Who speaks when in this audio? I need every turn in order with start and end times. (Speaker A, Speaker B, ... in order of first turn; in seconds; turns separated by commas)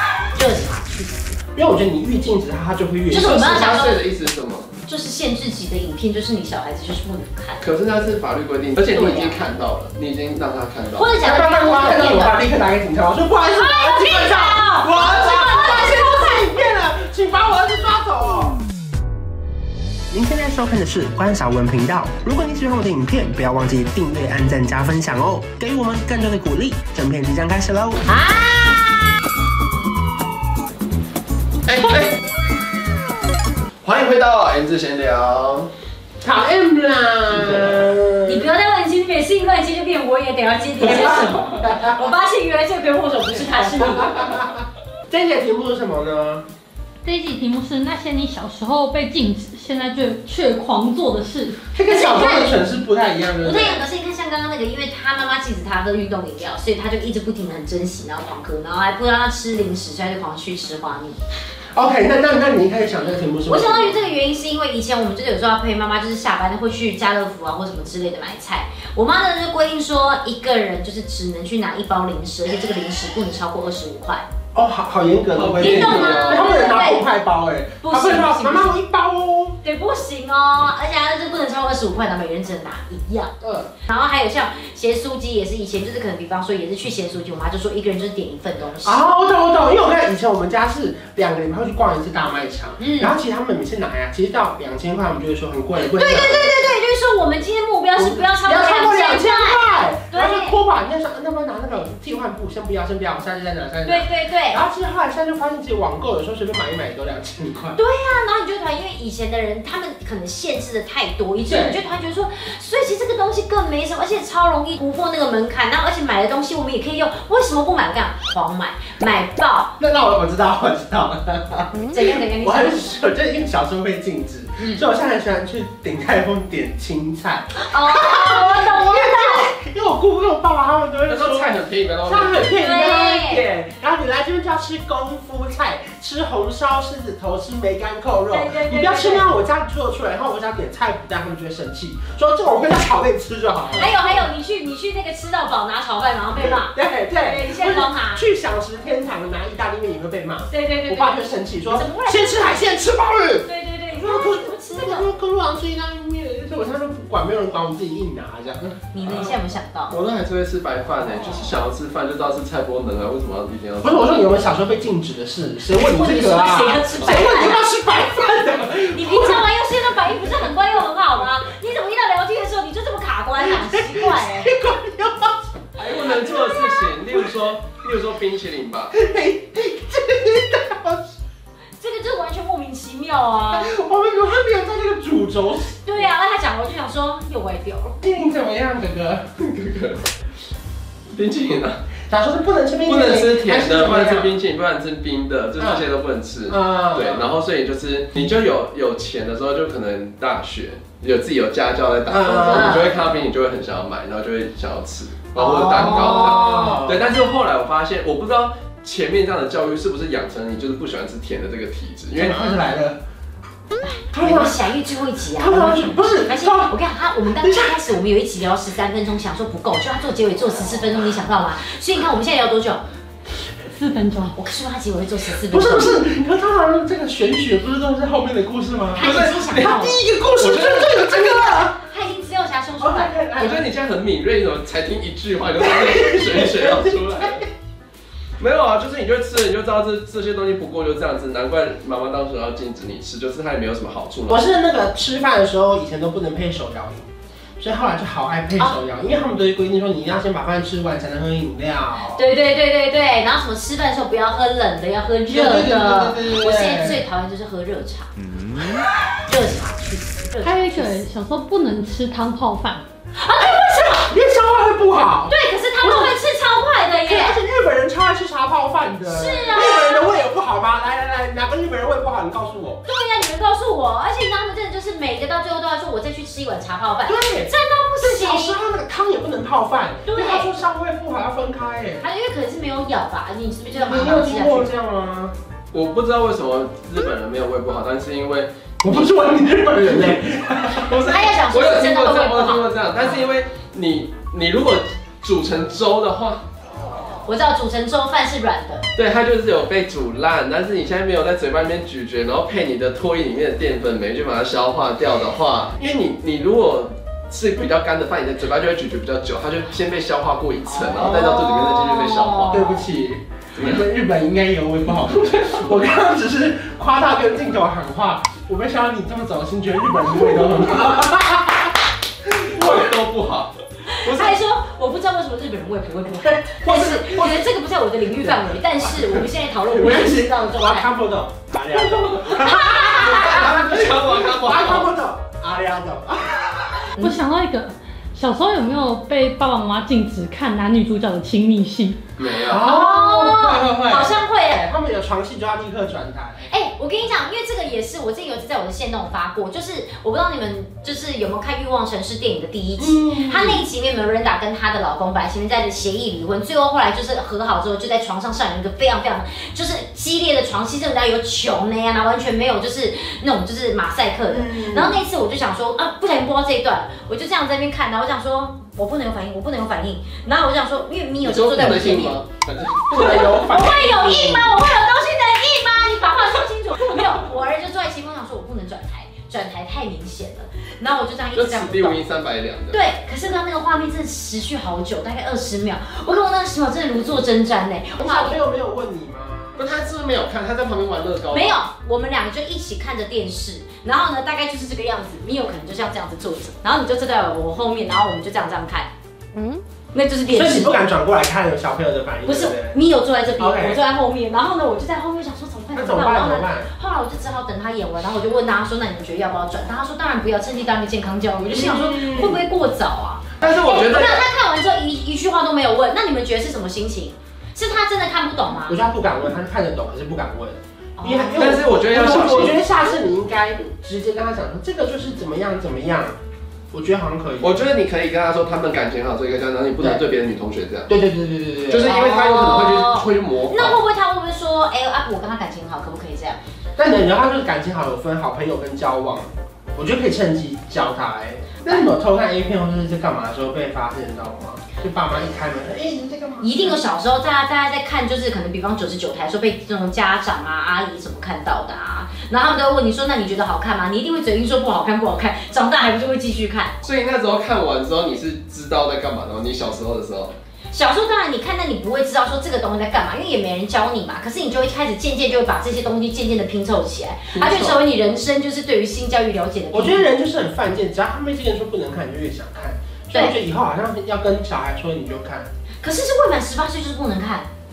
Speaker A: 0.3-1.4, Speaker B: 1.5-3.6, Speaker A: 3.1-4.0, Speaker C: 3.3-4.7, Speaker A: 4.8-7.7, Speaker C: 7.6-11.1, Speaker A: 8.8-9.5, Speaker A: 11.0-12.4, Speaker B: 11.2-18.6, Speaker A: 13.5-16.7, Speaker B: 20.1-28.1, Speaker A: 28.1-29.0, Speaker C: 31.7-32.1, Speaker C: 33.8-35.7, Speaker B: 36.2-38.5, Speaker A: 38.2-44.4, Speaker B: 40.9-41.4, Speaker B: 43.8-46.4, Speaker D: 47.0-51.6, Speaker B: 51.7-53.8, Speaker A: 51.9-52.6, Speaker A: 53.4-61.2, Speaker B: 61.8-64.0, Speaker A: 63.5-74.2, Speaker B: 74.5-79.6, Speaker C: 75.3-76.5, Speaker A: 75.6-77.1, Speaker A: 77.8-78.8, Speaker A: 79.6-83.3, Speaker B: 83.4-83.7, Speaker A: 83.9-89.0, Speaker B: 88.8-96.7, Speaker A: 92.8-93.2, Speaker A: 95.8-100.6, Speaker B: 98.0-107.8, Speaker A: 103.8-104.6, Speaker A: 107.8-119.7, Speaker B: 111.5-111.8, Speaker B: 119.8-144.3, Speaker A: 121.9-122.9, Speaker A: 124.6-124.8, Speaker A: 127.5-129.5, Speaker C: 131.1-132.3, Speaker A: 132.3-133.4, Speaker A: 138.3-139.3, Speaker A: 143.7-148.2, Speaker B: 146.3-158.8, Speaker A: 150.5-152.7, Speaker A: 153.4-155.1, Speaker A: 158.9-160.0, Speaker C: 159.9-164.1, Speaker B: 163.8-169.5, Speaker A: 165.7-167.6, Speaker A: 168.9-174.5, Speaker B: 173.4-175.3, Speaker C: 175.8-178.9, Speaker B: 176.0-177.3, Speaker B: 178.9-181.1, Speaker A: 181.8-183.7, Speaker B: 183.5-185.8, Speaker A: 185.8-188.0, Speaker B: 188.0-189.3, Speaker C: 189.4-190.0, Speaker C: 191.1-191.8, Speaker B: 192.1-194.3, Speaker C: 192.9-212.4, Speaker B: 195.6-195.9, Speaker B: 196.5-197.3, Speaker B: 202.1-202.8, Speaker A: 202.5-202.9, Speaker A: 205.4-206.8, Speaker B: 205.7-207.0, Speaker B: 212.1-213.0, Speaker A: 213.8-222.8, Speaker B: 214.1-214.6, Speaker B: 215.4-216.8, Speaker B: 217.3-217.8, Speaker D: 223.7-224.3, Speaker A: 224.3-226.1, Speaker B: 225.5-231.8, Speaker A: 228.9-230.0, Speaker C: 229.0-229.7, Speaker C: 230.4-230.9, Speaker A: 230.9-233.2, Speaker B: 232.8-233.6, Speaker C: 233.4-237.4, Speaker B: 235.6-237.5, Speaker C: 238.4-244.4, Speaker B: 244.3-247.1, Speaker B: 247.6-252.2, Speaker A: 252.1-258.1, Speaker B: 255.3-257.0, Speaker A: 258.6-261.0, Speaker D: 260.4-262.8, Speaker A: 263.2-264.1, Speaker B: 263.7-266.2, Speaker A: 265.3-267.4, Speaker B: 267.1-272.8, Speaker A: 269.1-270.1, Speaker A: 272.9-278.6, Speaker B: 277.1-282.1, Speaker A: 280.1-280.5, Speaker A: 282.0-284.7, Speaker B: 283.7-285.3, Speaker C: 285.7-289.0, Speaker B: 288.8-291.0, Speaker C: 290.8-296.4, Speaker A: 291.0-292.7, Speaker A: 297.3-298.9, Speaker C: 299.0-312.6, Speaker A: 310.7-312.9, Speaker B: 311.0-311.3, Speaker B: 312.5-321.7, Speaker C: 313.6-313.8, Speaker C: 322.5-324.3, Speaker B: 322.6-322.8, Speaker A: 323.9-330.9, Speaker B: 326.5-327.5, Speaker B: 328.2-337.0, Speaker A: 332.0-333.7, Speaker C: 333.2-334.8, Speaker A: 334.5-334.7, Speaker D: 337.0-342.0, Speaker C: 342.2-342.6, Speaker B: 342.4-346.5, Speaker A: 342.6-344.6, Speaker A: 346.5-372.2, Speaker B: 352.8-353.7, Speaker B: 364.3-365.0, Speaker C: 371.2-373.4, Speaker B: 372.9-374.6, Speaker A: 372.9-382.0, Speaker C: 381.4-382.8, Speaker A: 382.7-388.4, Speaker B: 388.0-389.7, Speaker C: 389.6-391.6, Speaker A: 391.3-400.8, Speaker B: 400.3-402.8, Speaker A: 402.2-418.8, Speaker B: 403.4-403.8, Speaker B: 405.7-406.7, Speaker B: 411.4-412.4, Speaker C: 413.4-414.2, Speaker B: 418.6-426.2, Speaker A: 421.0-422.4, Speaker C: 421.4-422.6, Speaker B: 426.7-427.6, Speaker C: 427.4-430.9, Speaker B: 430.9-431.9, Speaker C: 431.7-433.8, Speaker A: 431.7-436.4, Speaker B: 436.8-446.8, Speaker A: 446.4-456.8, Speaker C: 456.8-460.4, Speaker A: 460.7-470.1, Speaker C: 467.3-467.8, Speaker B: 469.7-475.5, Speaker A: 475.8-477.5